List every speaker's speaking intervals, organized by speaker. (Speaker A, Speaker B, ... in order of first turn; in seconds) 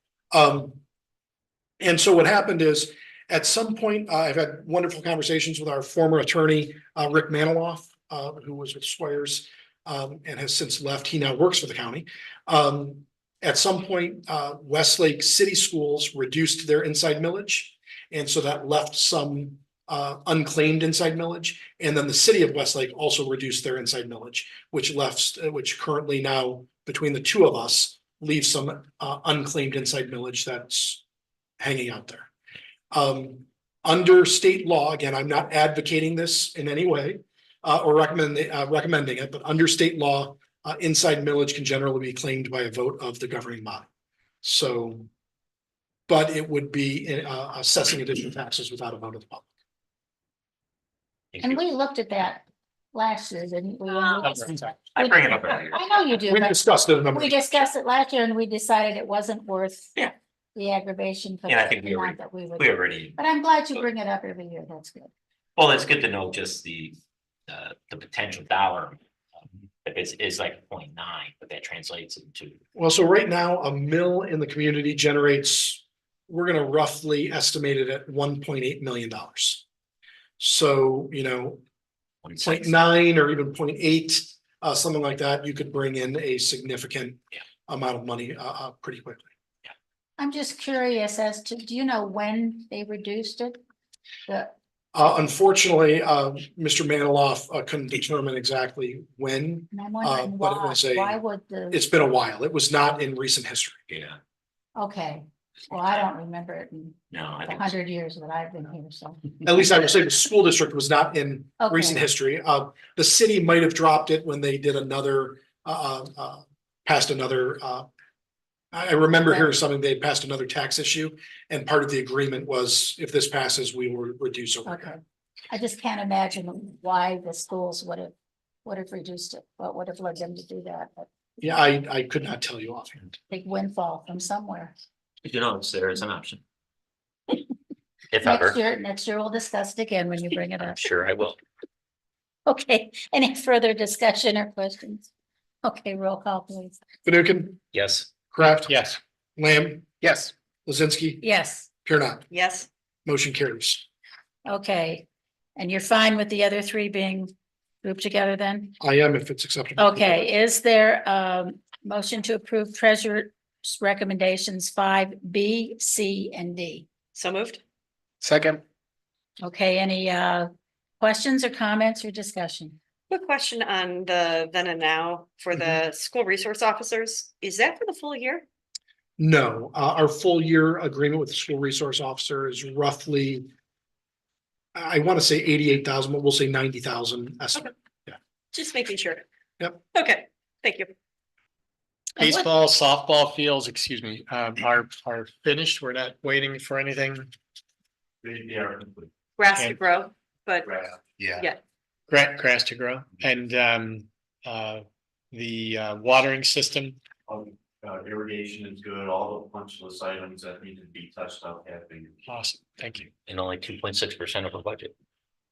Speaker A: 0.3-0.8, 1.8-31.0, 31.6-32.3, 32.9-43.9, 44.4-45.1, 46.1-49.5, 56.3-57.6, 72.7-79.6, 80.4-81.6, 82.4-89.3, 94.9-103.8, 109.4-117.9, 118.7-125.0, 131.4-133.2, 147.0-147.6, 148.3-148.8, 149.4-149.9, 150.7-151.2, 151.8-152.3, 153.1-153.8, 158.8-160.3, 179.2-183.5, 184.7-188.2
Speaker B: 51.3-51.6, 54.3-55.8, 61.5-63.2, 65.5-67.0, 67.5-69.0, 69.8-72.6, 82.2-82.7, 103.9-104.2, 107.1-107.7, 135.2-136.4, 138.1-138.6, 140.6-141.4, 147.7-148.1, 213.2-214.9
Speaker C: 51.4-59.9, 60.5-65.1, 90.2-93.6, 94.3-94.5, 99.7-101.8, 104.8-109.4, 111.6-112.0, 124.7-125.0, 125.5-128.1, 128.6-131.1, 133.3-134.7, 138.2-140.8, 142.4-145.1, 145.6-146.8, 151.2-151.7, 154.4-155.0, 155.6-158.8, 159.8-166.9, 169.4-170.5, 171.0-172.8
Speaker D: 148.7-149.0, 168.2-168.6, 192.2-197.3, 199.5-199.8, 202.1-207.0, 212.2-213.1
Speaker E: 152.3-152.7, 167.1-167.6, 173.1-178.4, 188.5-189.2, 189.9-190.9, 199.4-200.7
Speaker F: 198.2-199.1, 200.6-201.5, 207.3-212.2